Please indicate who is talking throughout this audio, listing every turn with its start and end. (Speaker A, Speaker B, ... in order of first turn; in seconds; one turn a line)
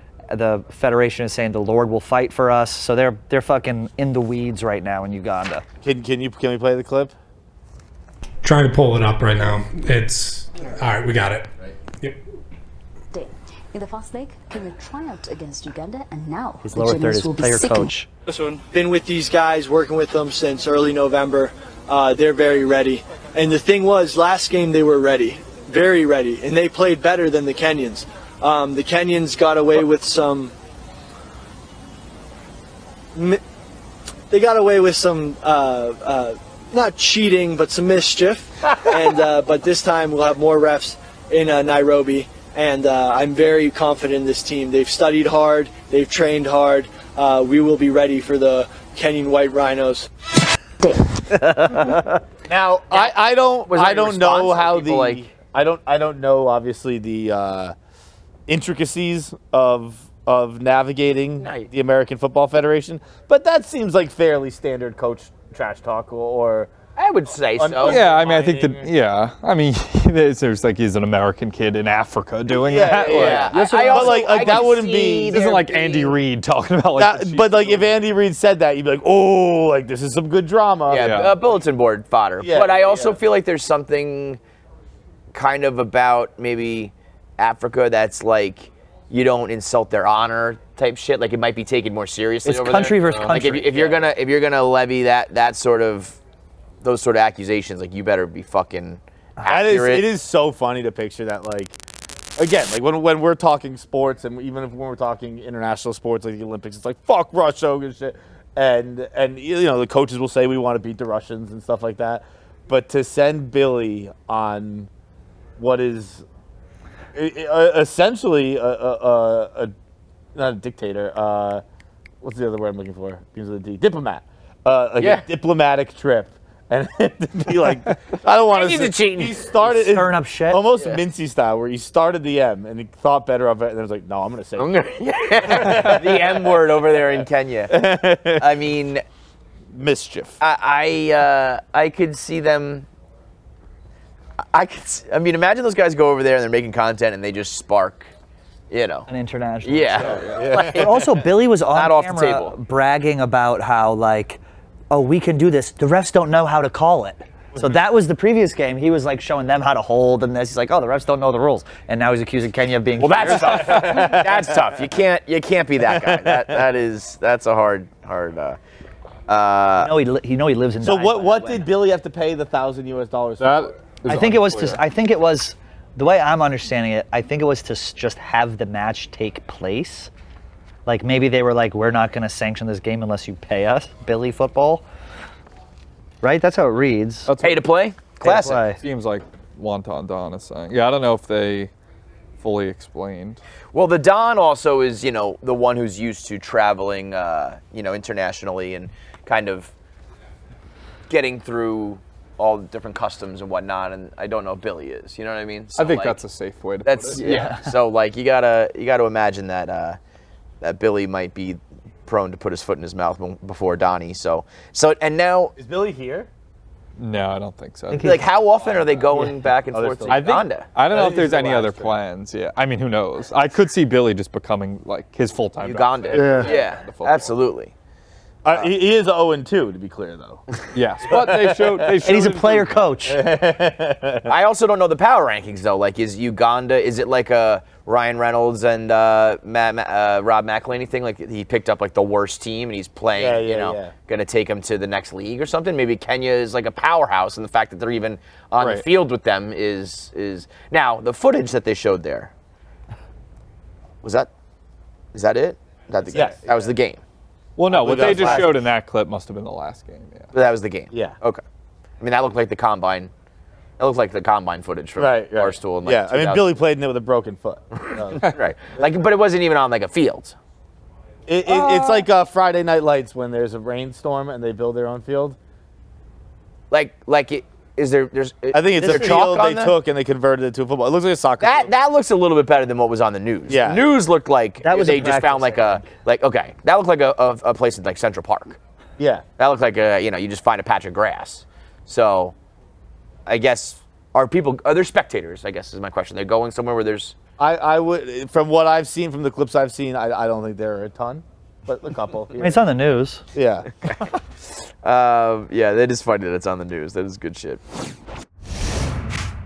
Speaker A: 0.3-5.6
Speaker B: 5.8-7.1
Speaker C: 8.4-11.4
Speaker D: 9.4-9.7
Speaker D: 10.6-10.8
Speaker D: 13.1-17.9
Speaker A: 16.6-18.1
Speaker E: 18.6-30.5
Speaker E: 33.1-33.4
Speaker E: 34.3-50.1
Speaker B: 52.5-57.7
Speaker F: 53.6-55.3
Speaker B: 58.5-66.7
Speaker F: 61.4-61.7
Speaker F: 67.0-68.1
Speaker B: 67.5-68.9
Speaker G: 67.8-77.8
Speaker B: 72.5-75.4
Speaker F: 73.0-76.2
Speaker B: 77.0-81.1
Speaker F: 80.9-84.4
Speaker G: 81.0-81.3
Speaker B: 82.4-83.2
Speaker F: 85.3-96.2
Speaker A: 92.4-93.9
Speaker F: 96.8-100.0
Speaker B: 99.4-101.8
Speaker B: 102.4-114.9
Speaker B: 115.6-116.2
Speaker B: 117.1-119.7
Speaker B: 120.3-121.6
Speaker B: 122.2-134.7
Speaker F: 125.0-125.2
Speaker F: 128.5-129.4
Speaker A: 129.6-130.6
Speaker F: 130.8-131.0
Speaker F: 134.6-139.0
Speaker B: 135.5-136.4
Speaker B: 137.7-138.5
Speaker B: 139.7-140.4
Speaker F: 140.4-142.9
Speaker F: 144.5-148.1
Speaker F: 148.7-149.1
Speaker A: 149.1-164.0
Speaker F: 149.6-151.0
Speaker B: 150.0-151.0
Speaker F: 151.7-152.6
Speaker F: 163.0-168.6
Speaker B: 163.4-164.6
Speaker B: 165.8-166.6
Speaker F: 169.3-169.9
Speaker A: 169.8-171.7
Speaker B: 170.8-173.7
Speaker G: 173.4-174.8
Speaker A: 174.1-180.1
Speaker A: 180.8-184.8
Speaker A: 186.2-187.3
Speaker G: 187.3-187.6
Speaker F: 187.4-188.6
Speaker A: 188.2-188.8
Speaker G: 188.7-191.7
Speaker G: 192.4-193.4
Speaker F: 193.7-199.7
Speaker F: 201.1-206.2
Speaker G: 205.7-207.5
Speaker F: 206.8-210.0
Speaker A: 207.2-207.6
Speaker F: 210.6-215.5
Speaker B: 215.6-216.3
Speaker G: 217.0-218.2
Speaker A: 217.9-218.2
Speaker F: 218.0-220.7
Speaker B: 218.7-220.3
Speaker G: 220.1-227.4
Speaker B: 220.9-222.0
Speaker F: 225.6-227.7
Speaker B: 226.1-226.5
Speaker B: 228.4-232.0
Speaker G: 230.7-232.8
Speaker A: 232.0-233.2
Speaker B: 233.1-234.3
Speaker F: 234.3-252.3
Speaker B: 243.1-243.9
Speaker B: 248.6-248.8
Speaker F: 254.0-254.3
Speaker F: 255.1-257.0
Speaker B: 256.1-256.6
Speaker G: 257.6-260.3
Speaker B: 257.7-258.5
Speaker F: 257.9-258.4
Speaker F: 260.3-261.4
Speaker B: 260.9-261.1
Speaker F: 262.0-263.1
Speaker F: 263.8-266.6
Speaker B: 264.9-268.2
Speaker F: 267.8-270.4
Speaker B: 271.3-275.4
Speaker F: 276.7-279.7
Speaker B: 278.5-281.7
Speaker A: 278.8-279.2
Speaker F: 281.4-288.6
Speaker B: 283.5-283.9
Speaker A: 284.6-285.9
Speaker B: 289.0-289.2
Speaker F: 289.4-292.3
Speaker F: 293.2-297.1
Speaker B: 297.4-302.6
Speaker A: 302.4-303.2
Speaker B: 303.3-303.7
Speaker F: 304.8-307.6